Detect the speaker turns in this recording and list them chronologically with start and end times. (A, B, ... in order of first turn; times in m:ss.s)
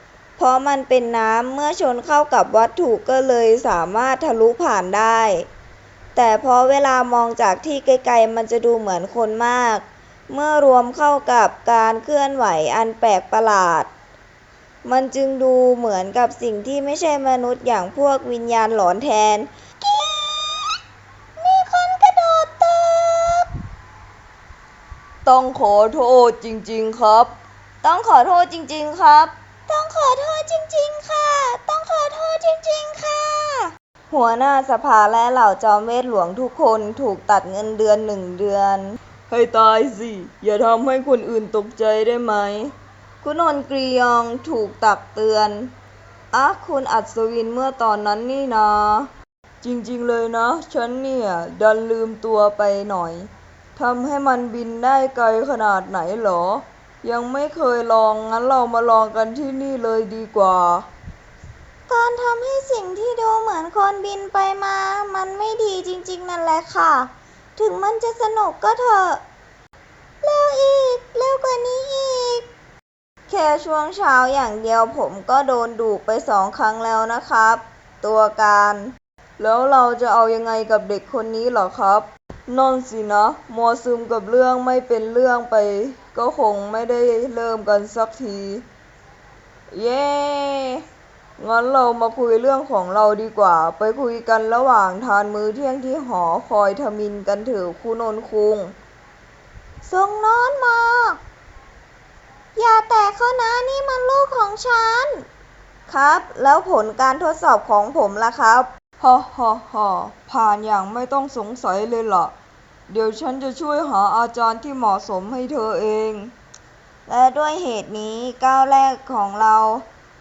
0:00.4-0:05.5 A
0:06.2-0:13.9 A
0:14.8-0:20.8 A
0:21.4-0:23.5 A
0:25.2-0:27.3 A
0:27.8-0:45.7 A
0:46.3-0:49.1 A
0:49.6-1:00.9 A
1:01.9-1:09.2 A
1:10.2-1:12.4 A
1:13.3-1:28.6 A
1:29.7-1:30.8 A
1:31.4-1:38.8 A
1:39.8-1:41.2 A
1:42.6-1:45.2 A
1:45.9-1:52.3 A
1:52.9-1:56.3 A
1:57.1-1:59.8 A